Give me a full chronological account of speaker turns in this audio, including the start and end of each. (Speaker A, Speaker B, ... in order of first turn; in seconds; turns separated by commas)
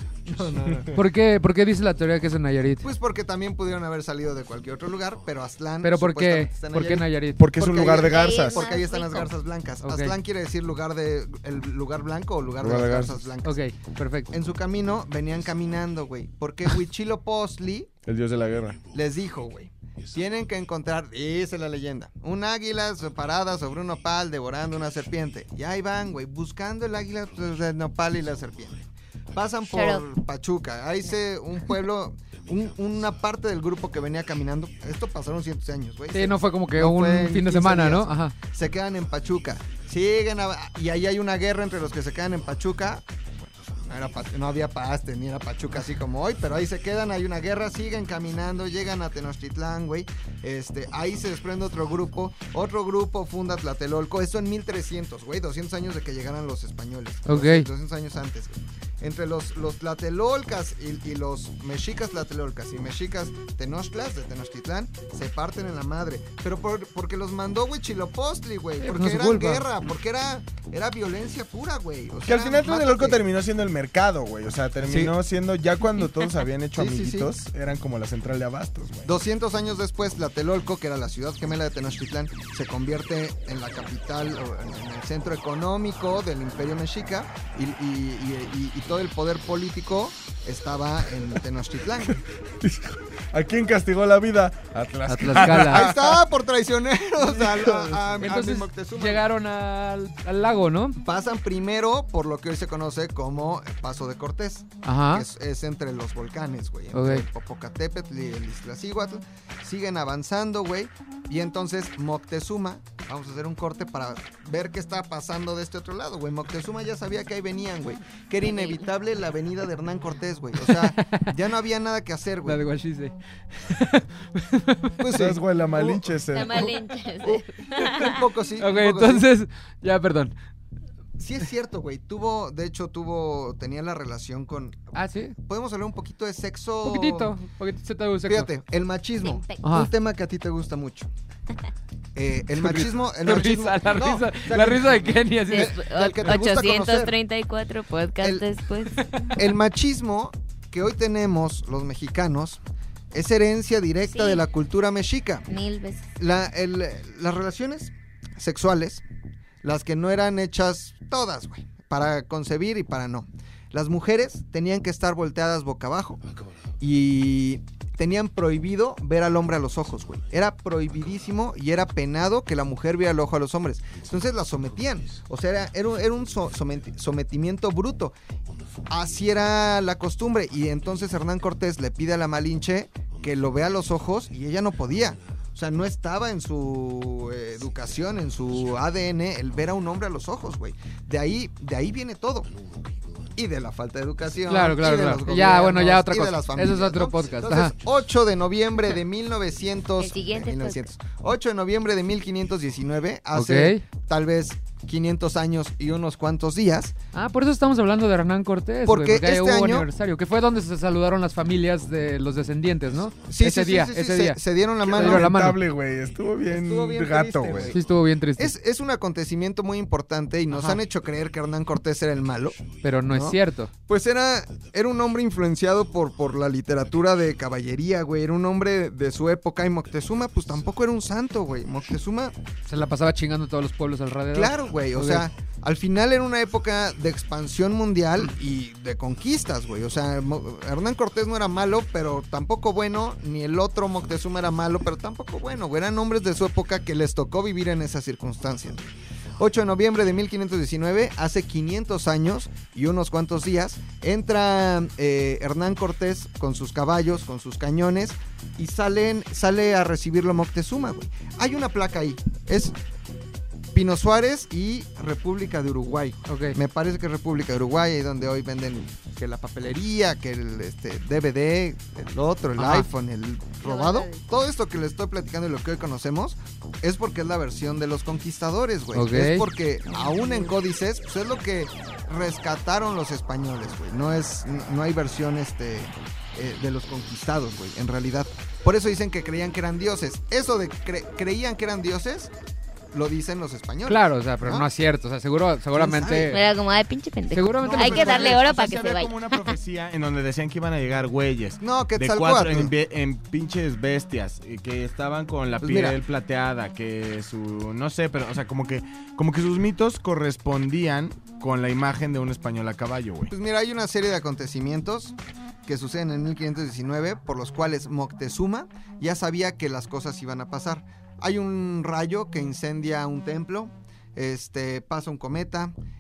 Speaker A: 0.2-0.9, Speaker B: 0.7-1.0, Speaker C: 0.9-2.9, Speaker A: 2.8-13.6, Speaker C: 5.8-7.4, Speaker B: 7.4-8.7, Speaker D: 7.9-9.3, Speaker C: 9.8-10.2, Speaker B: 12.6-13.3, Speaker C: 13.4-14.3, Speaker A: 14.3-17.9, Speaker B: 18.0-18.8, Speaker A: 18.9-73.2, Speaker D: 29.7-30.0, Speaker C: 36.1-38.3, Speaker C: 57.3-57.7, Speaker C: 68.8-69.6, Speaker B: 72.3-79.1, Speaker A: 74.8-75.1, Speaker A: 76.7-77.3, Speaker A: 79.0-92.2, Speaker B: 92.1-96.2, Speaker C: 95.1-95.9, Speaker A: 95.3-99.2, Speaker B: 97.2-98.1, Speaker C: 98.2-101.0, Speaker A: 101.0-122.6, Speaker C: 104.8-105.2, Speaker C: 106.9-107.2, Speaker D: 118.4-118.9, Speaker C: 120.6-121.3, Speaker C: 122.4-124.9, Speaker A: 125.0-126.0, Speaker B: 125.1-126.7, Speaker D: 126.3-128.2, Speaker A: 127.2-129.3, Speaker C: 128.6-130.3, Speaker A: 131.2-137.4, Speaker C: 134.9-135.4, Speaker C: 136.8-138.5, Speaker A: 138.2-141.1, Speaker D: 139.2-139.6, Speaker C: 139.6-139.9, Speaker A: 142.2-147.2, Speaker C: 142.5-145.8, Speaker D: 145.5-149.3, Speaker C: 149.0-149.3, Speaker A: 149.4-155.5, Speaker D: 154.1-154.4, Speaker D: 155.5-156.1, Speaker A: 156.2-159.0, Speaker A: 159.6-166.2, Speaker A: 166.8-178.2, Speaker A: 178.9-192.5, Speaker A: 193.3-206.9, Speaker C: 194.5-197.7, Speaker D: 200.0-200.9, Speaker C: 203.3-203.8, Speaker C: 207.1-215.6, Speaker A: 208.9-209.9, Speaker A: 213.3-215.3, Speaker B: 214.8-217.8, Speaker A: 216.5-217.8, Speaker C: 217.7-218.5, Speaker A: 218.4-232.4, Speaker C: 220.5-220.8, Speaker C: 222.8-223.7, Speaker C: 232.7-235.2, Speaker A: 234.3-262.8, Speaker A: 263.7-292.3, Speaker C: 266.3-266.6, Speaker C: 272.6-272.9, Speaker D: 273.6-274.2, Speaker C: 278.9-279.5, Speaker D: 279.9-280.5, Speaker A: 292.9-294.7, Speaker C: 293.9-296.4, Speaker A: 295.7-296.4, Speaker D: 296.3-299.6, Speaker C: 297.3-298.3, Speaker B: 297.6-313.3, Speaker A: 297.8-298.5, Speaker A: 301.6-302.7, Speaker A: 305.6-306.0, Speaker A: 313.3-325.7